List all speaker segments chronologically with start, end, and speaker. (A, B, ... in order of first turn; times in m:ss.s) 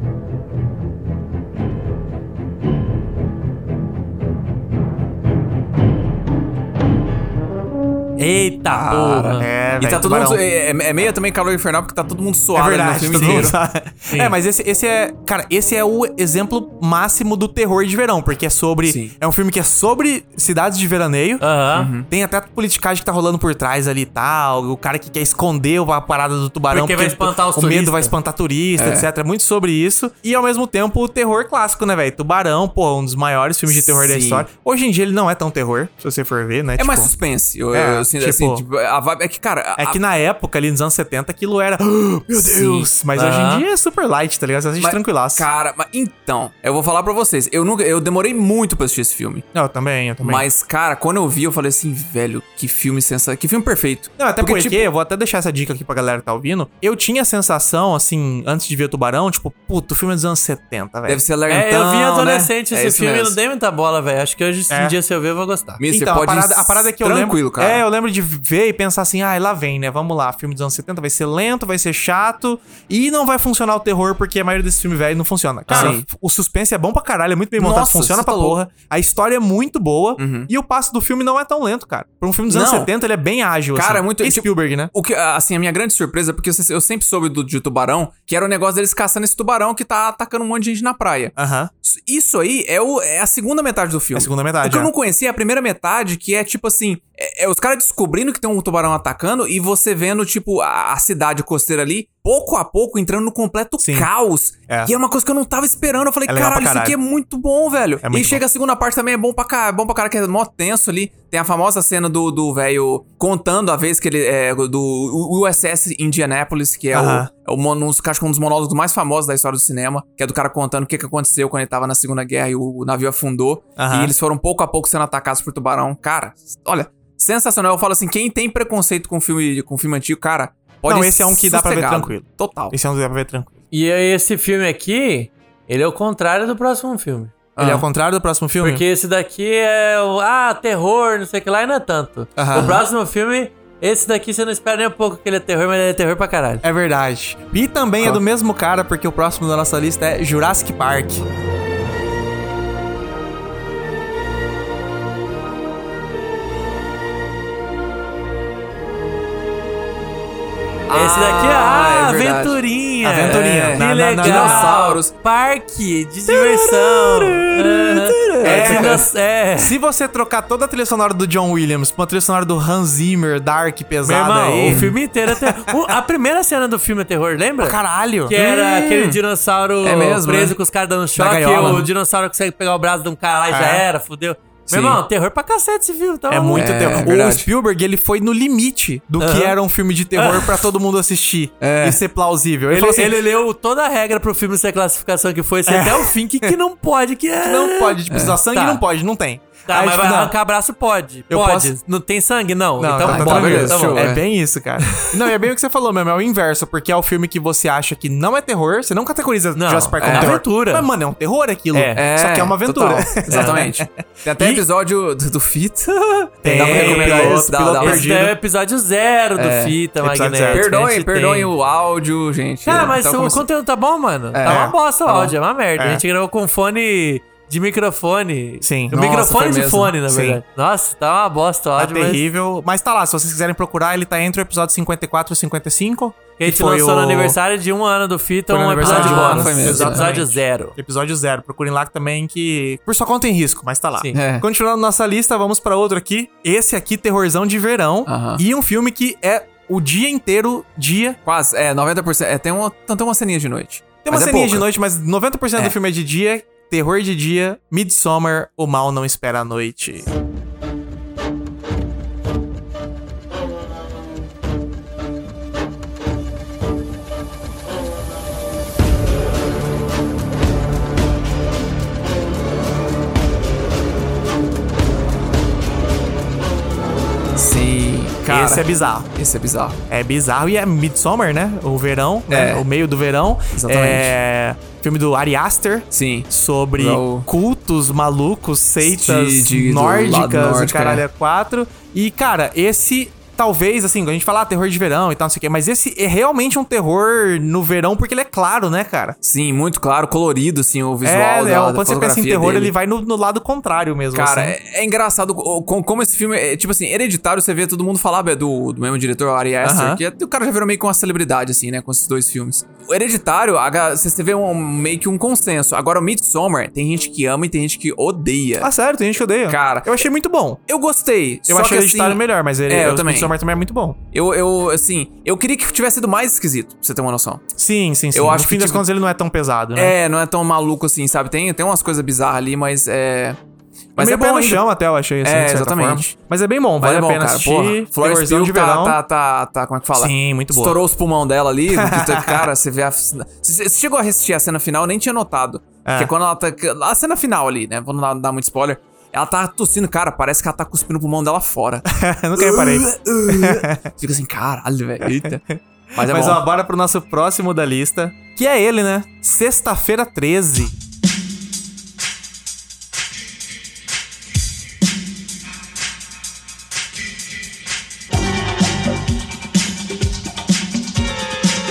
0:08.2-0:09.5 A
0:08.8-0:13.5 B
0:09.4-0:10.4 C
0:12.5-0:21.4 C
0:13.1-0:13.5 A
0:14.1-0:14.3 A
0:18.8-0:19.1 B
0:21.4-0:21.9 A
0:21.7-0:22.1 B
0:22.1-0:37.1 C
0:26.7-0:28.1 A
0:28.8-0:29.1 B
0:33.7-0:34.4 B
0:36.8-0:40.0 B
0:37.7-0:38.6 C
0:39.8-0:45.4 C
0:42.4-0:42.9 B
0:43.1-0:43.6 A
0:44.8-0:49.4 B
0:49.5-0:50.4 C
0:50.2-0:54.8 B
0:54.2-1:01.2 C
1:01.1-1:03.3 B
1:01.5-1:05.8 A
1:04.7-1:05.0 C
1:05.8-1:07.8 B
1:05.9-1:24.9 C
1:15.7-1:15.9 A
1:15.7-1:16.0 B
1:17.6-1:18.6 B
1:20.2-1:20.5 B
1:22.5-1:22.9 B
1:23.7-1:31.3 B
1:31.4-1:31.7 C
1:31.8-2:12.7 B
1:34.1-1:34.9 C
1:43.8-1:44.1 C
1:46.3-1:47.0 C
1:48.0-1:48.4 C
1:56.9-1:57.3 C
2:03.8-2:04.1 C
2:10.9-2:13.6 C
2:13.7-2:17.3 A
2:17.6-2:17.8 B
2:17.6-2:18.8 C
2:18.6-2:26.6 A
2:22.4-2:22.8 C
2:26.6-2:31.2 C
2:40.9-2:42.6 B
2:40.9-2:49.7 A
2:43.0-2:44.8 C
2:43.2-2:45.1 B
2:46.3-2:55.9 C
2:48.2-2:49.0 B
2:54.0-3:07.0 A
2:54.6-2:54.9 B
2:57.6-2:58.3 C
2:58.3-2:59.2 B
2:59.8-3:00.6 B
3:01.2-3:01.9 C
3:01.5-3:01.8 B
3:03.5-3:03.8 C
3:04.7-3:05.0 B
3:06.3-3:13.2 C
3:06.6-3:07.5 B
3:09.2-3:09.5 A
3:10.2-3:10.6 A
3:11.6-3:12.0 B
3:12.7-3:18.8 A
3:15.7-3:16.6 C
3:17.4-3:20.3 C
3:18.1-3:18.4 B
3:19.7-3:24.1 A
3:21.3-3:21.7 C
3:22.8-3:34.6 C
3:23.0-3:24.2 B
3:29.6-3:30.9 A
3:30.0-3:30.4 B
3:31.7-3:32.0 A
3:31.9-3:38.1 B
3:33.3-3:33.6 A
3:36.4-3:38.3 C
3:36.5-3:41.5 A
3:39.4-3:39.7 B
3:40.0-3:40.6 C
3:40.5-3:43.4 B
3:42.6-3:52.2 A
3:44.3-3:45.3 B
3:44.4-3:44.8 C
3:45.8-3:46.0 C
3:48.6-3:49.0 C
3:48.9-3:50.0 B
3:50.1-3:50.4 C
3:51.8-3:57.4 C
3:56.4-4:00.8 A
3:58.5-4:11.2 C
3:58.8-4:00.1 B
4:04.1-4:04.4 B
4:08.1-4:08.4 B
4:11.2-4:14.6 B
4:14.0-4:20.1 C
4:37.4-4:38.6 B
4:38.3-4:39.1 C
4:39.2-4:39.8 B
4:39.9-4:59.2 C
4:42.3-4:42.6 B
4:43.5-4:44.1 B
4:45.9-4:47.3 B
4:48.8-4:51.0 B
4:59.2-5:02.7 B
5:01.0-5:04.6 C
5:04.1-5:18.7 B
5:09.6-5:10.0 C
5:18.6-5:20.6 C
5:19.5-5:20.0 B
5:20.7-5:23.3 B
5:21.5-5:24.0 C
5:24.1-5:27.4 B
5:27.6-5:30.0 C
5:28.1-5:28.8 B
5:29.7-5:33.4 B
5:33.9-5:34.6 B
5:34.0-5:39.0 C
5:35.2-5:36.1 B
5:36.8-5:55.4 B
5:39.9-5:40.8 C
5:41.7-5:42.5 C
5:45.8-5:46.1 C
5:51.9-5:53.9 C
5:55.0-6:00.7 C
5:55.9-5:56.4 B